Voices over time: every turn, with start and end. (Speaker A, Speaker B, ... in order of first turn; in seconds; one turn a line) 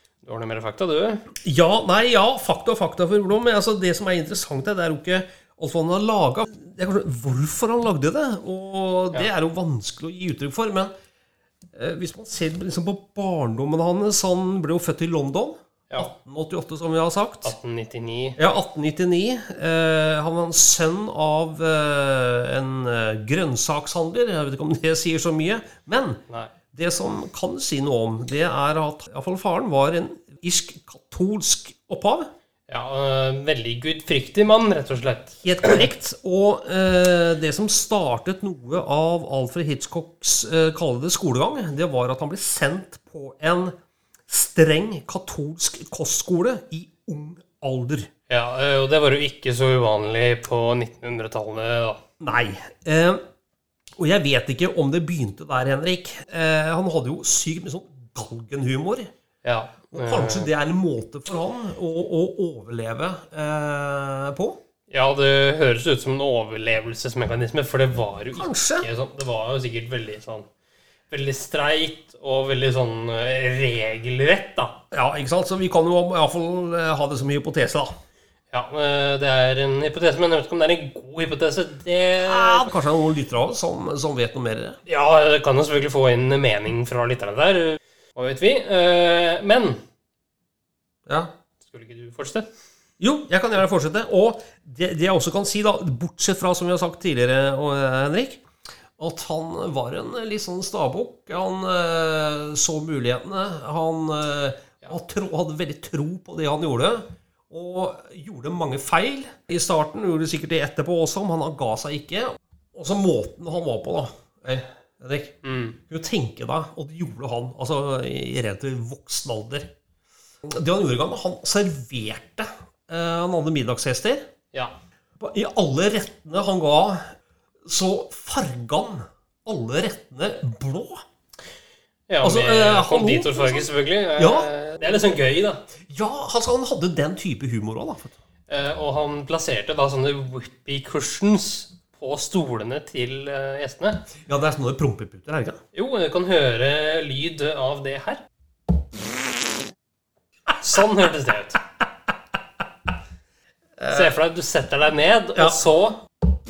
Speaker A: 0.2-1.2
Speaker B: 1.4-10.9
Speaker B: 11.7-17.5
Speaker A: 17.4-18.4
Speaker B: 18.4-26.2
Speaker B: 26.7-32.3
Speaker A: 32.7-35.4
Speaker B: 35.4-43.7
Speaker B: 44.3-48.1
Speaker A: 48.3-52.0
Speaker B: 52.2-53.2
Speaker B: 54.0-59.1
Speaker A: 59.4-60.5
Speaker B: 59.9-64.6
Speaker A: 64.9-70.5
Speaker B: 68.3-68.9
Speaker A: 71.1-74.8
Speaker B: 74.9-77.9
Speaker A: 78.5-82.7
Speaker B: 82.2-84.8
Speaker A: 84.9-89.8
Speaker B: 91.0-91.3
Speaker A: 91.6-92.5
Speaker B: 93.0-98.4
Speaker B: 99.0-119.7
Speaker A: 115.4-115.8
Speaker B: 120.4-124.3
Speaker B: 125.2-127.1
Speaker B: 127.7-131.0
Speaker A: 132.1-135.6
Speaker B: 132.2-134.5
Speaker B: 135.9-138.2
Speaker A: 138.5-144.1
Speaker B: 144.3-145.6
Speaker A: 145.7-148.2
Speaker A: 150.6-151.6
Speaker B: 153.8-154.2
Speaker A: 153.9-156.0